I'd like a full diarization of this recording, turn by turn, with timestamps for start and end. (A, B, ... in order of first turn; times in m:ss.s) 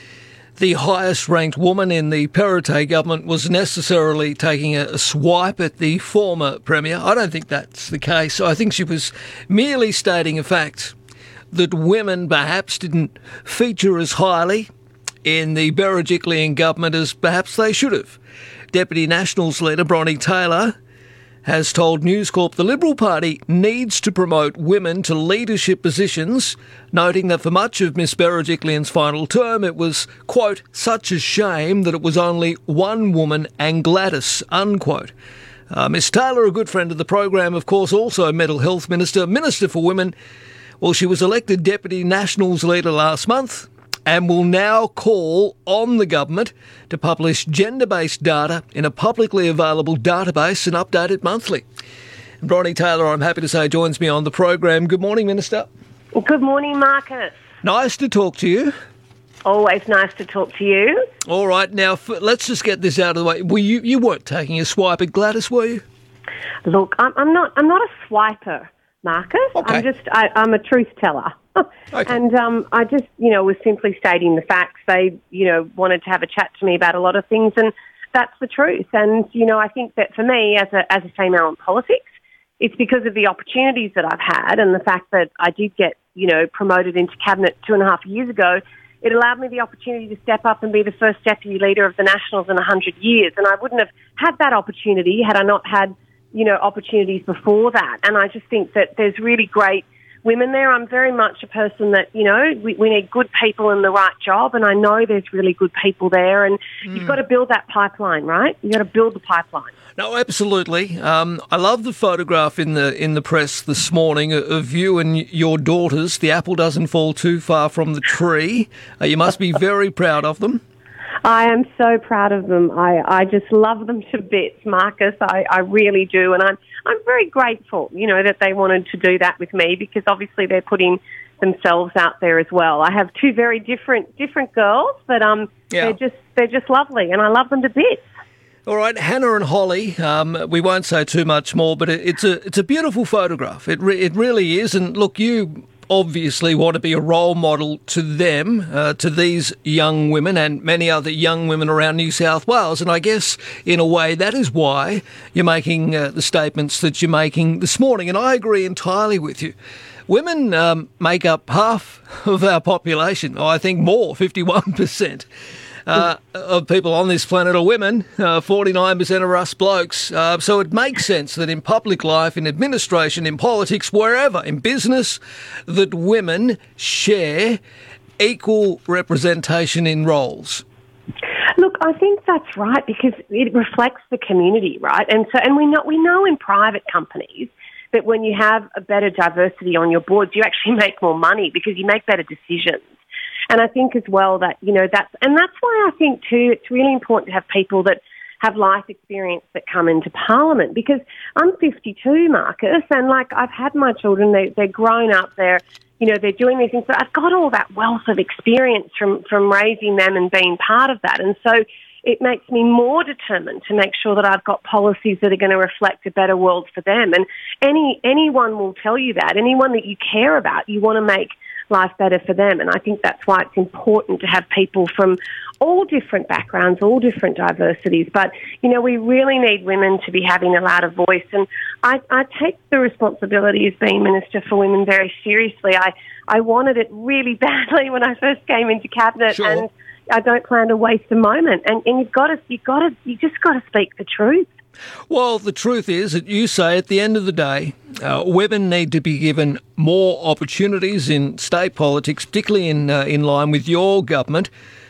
0:00.6-0:10.9 A
0:11.5-0:14.7 A
0:15.2-0:18.2 A
0:18.7-0:20.8 A
0:21.4-0:35.1 A
0:35.7-0:40.1 A
0:40.8-0:51.6 A
0:52.4-0:55.7 A
0:56.1-0:57.3 B
0:57.6-0:58.7 A
0:59.4-1:01.0 B
1:01.2-1:05.8 A
1:06.6-1:22.0 B
1:09.5-1:09.8 A
1:22.6-1:49.7 B
1:50.0-2:00.6 A
2:01.2-2:18.1 B
2:15.7-2:16.0 A
2:18.6-2:39.5 A
2:40.1-2:45.3 A
2:45.8-2:57.6 A
2:58.2-3:00.6 A
3:01.6-3:12.9 B
3:13.5-4:04.5 B
3:59.3-3:59.6 A
4:05.1-4:14.5 A